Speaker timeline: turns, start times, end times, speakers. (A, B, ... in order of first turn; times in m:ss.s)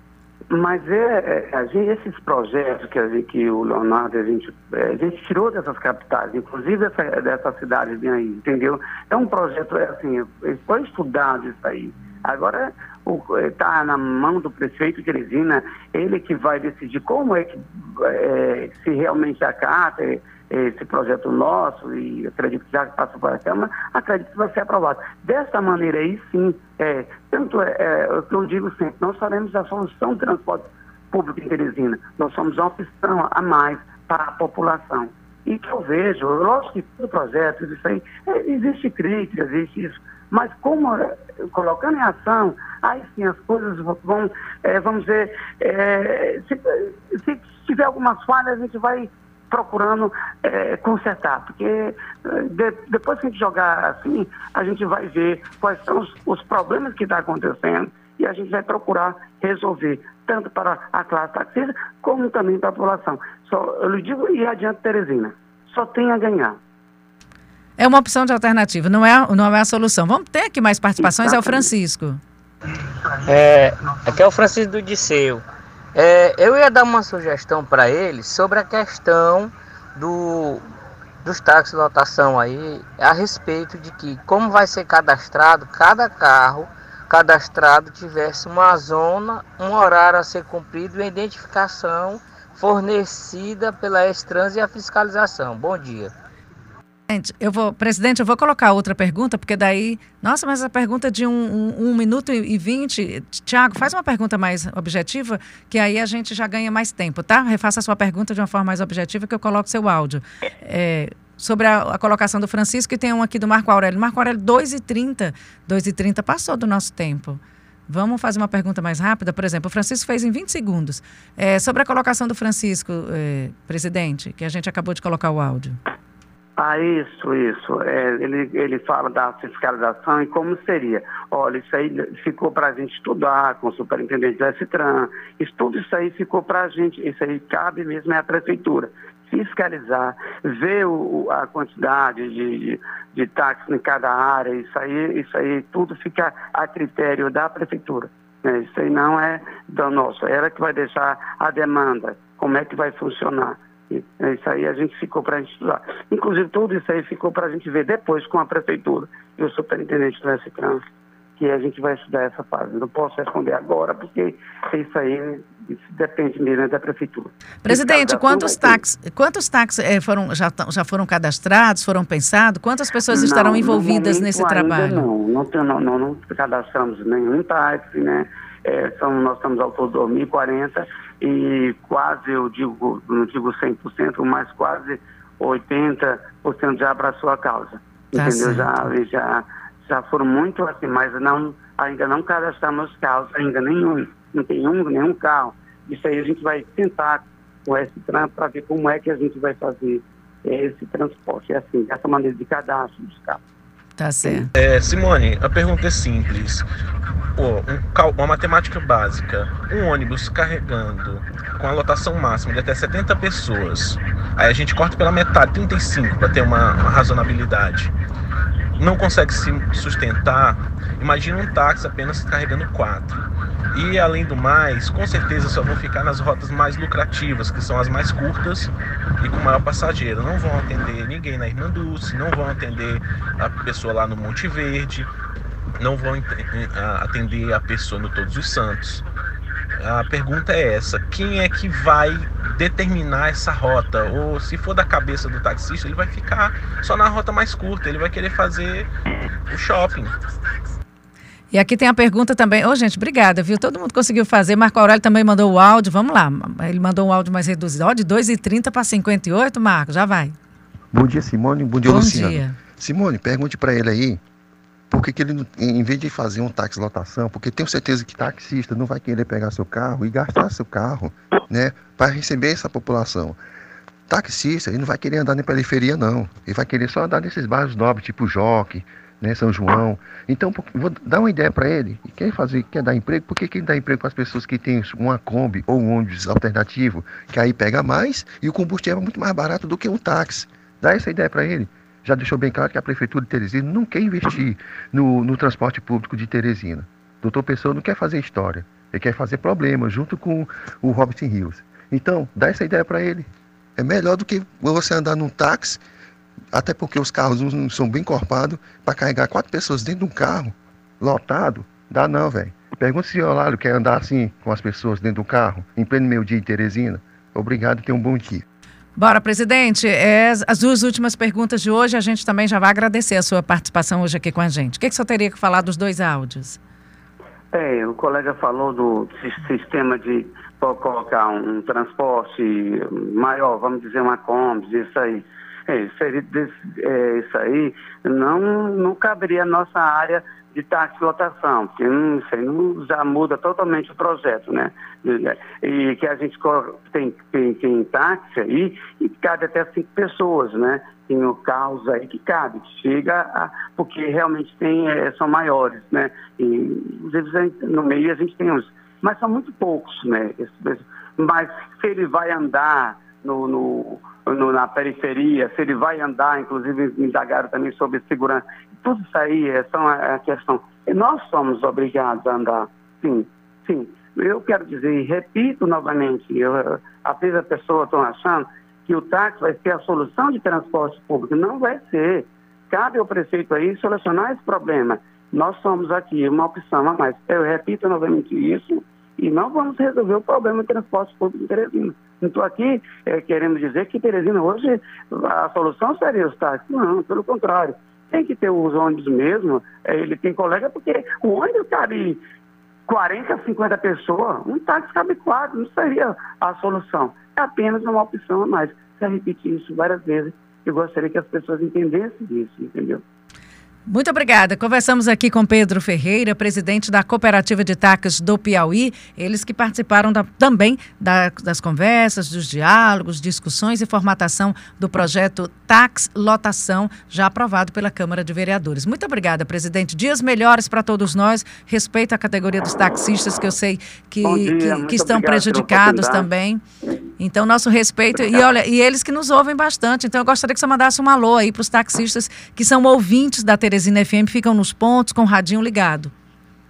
0:00.5-1:06.6 A
1:07.8-1:12.2 B
1:11.1-1:11.7 A
1:13.2-1:15.4 C
1:15.9-1:20.6 C
1:21.2-1:36.1 C
1:37.1-2:05.8 B
2:06.6-2:40.8 A
2:41.4-2:48.8 A
2:47.6-2:55.1 B
2:53.1-3:23.4 A
3:08.1-3:08.9 B
3:24.0-3:24.5 B
3:24.5-3:26.6 D
3:27.4-3:37.9 D
3:38.8-3:55.1 D
3:55.8-3:59.0 D
3:59.8-4:08.9 D
4:09.5-4:10.2 D
4:11.5-4:20.4 B
4:20.9-4:24.2 E
4:21.8-4:22.6 B
4:24.9-4:33.4 E
4:34.1-5:05.8 E
5:06.5-5:18.4 E
5:19.0-5:26.6 B
5:27.5-6:42.2 A
6:42.9-6:53.0 A
6:53.9-7:16.6 B
7:14.2-7:16.3 A
7:17.2-7:26.1 B
7:18.2-7:18.4 A